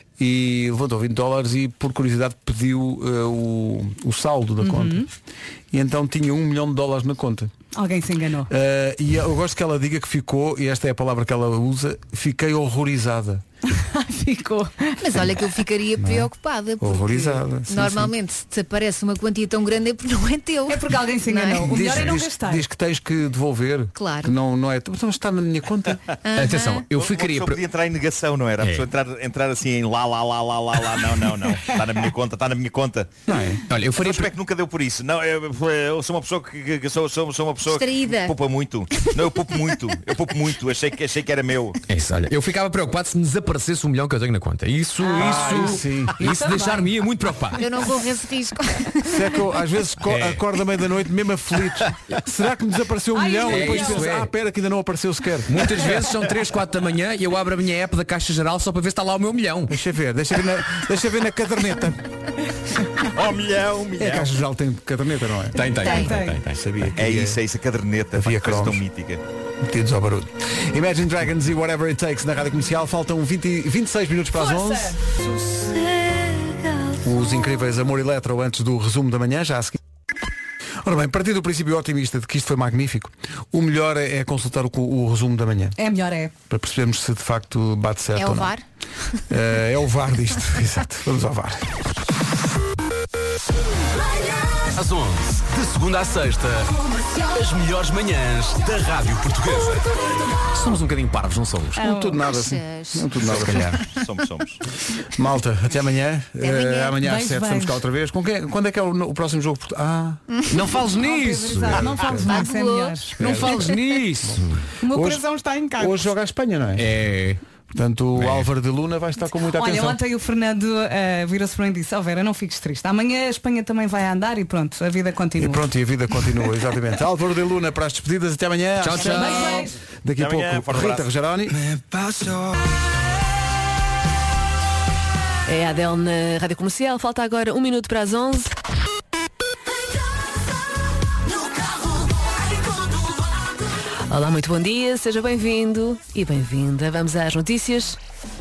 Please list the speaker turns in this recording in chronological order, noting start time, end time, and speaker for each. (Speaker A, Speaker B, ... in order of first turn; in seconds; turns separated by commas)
Speaker A: 0.2-5.1, Speaker B: 4.6-5.1, Speaker A: 5.7-7.5, Speaker B: 7.7-8.5, Speaker A: 8.5-13.4, Speaker B: 13.7-15.0, Speaker C: 15.0-21.8, Speaker A: 16.0-16.3, Speaker A: 16.8-18.1, Speaker B: 20.7-22.7, Speaker A: 21.6-26.0, Speaker C: 23.9-24.3, Speaker C: 26.2-26.9, Speaker D: 26.4-27.6, Speaker E: 26.9-33.1, Speaker A: 33.3-33.6, Speaker D: 33.7-34.3, Speaker E: 34.0-41.8, Speaker C: 37.6-38.4, Speaker C: 38.9-39.5, Speaker D: 41.9-47.6, Speaker B: 45.1-46.9, Speaker A: 45.1-46.2, Speaker C: 47.6-49.4, Speaker A: 49.0-55.9, Speaker D: 50.1-50.4, Speaker B: 53.1-54.1, Speaker D: 53.4-54.3, Speaker D: 55.5-59.7, Speaker A: 59.7-62.0, Speaker E: 63.0-64.3, Speaker A: 64.0-67.4, Speaker D: 65.5-67.0, Speaker B: 65.8-66.4, Speaker C: 65.8-66.1, Speaker E: 67.0-69.2, Speaker A: 68.1-68.8, Speaker A: 69.6-75.0, Speaker B: 74.3-75.0, Speaker A: 77.0-79.8, Speaker A: 80.8-85.8, Speaker B: 85.8-86.3, Speaker A: 86.5-88.5, Speaker C: 88.2-88.6, Speaker A: 89.3-91.7, Speaker F: 94.7-99.9, Speaker D: 100.5-101.7, Speaker B: 101.7-102.2, Speaker A: 101.7-103.8, Speaker C: 102.2-103.1, Speaker E: 103.8-104.6, Speaker A: 105.1-110.2, Speaker C: 106.4-107.0, Speaker B: 107.0-107.8, Speaker D: 110.5-111.9, Speaker B: 111.0-113.4, Speaker A: 111.7-112.5, Speaker C: 112.0-113.7, Speaker A: 113.2-113.7, Speaker D: 113.2-114.5, Speaker A: 114.3-115.2, Speaker B: 114.8-116.0, Speaker A: 115.8-116.9, Speaker D: 116.8-117.4, Speaker A: 117.7-120.0, Speaker D: 118.2-118.5, Speaker B: 119.4-125.6, Speaker A: 125.4-131.6, Speaker D: 128.8-129.6, Speaker B: 129.0-129.8, Speaker E: 130.2-131.1, Speaker G: 135.5-138.5, Speaker G: 144.1-148.0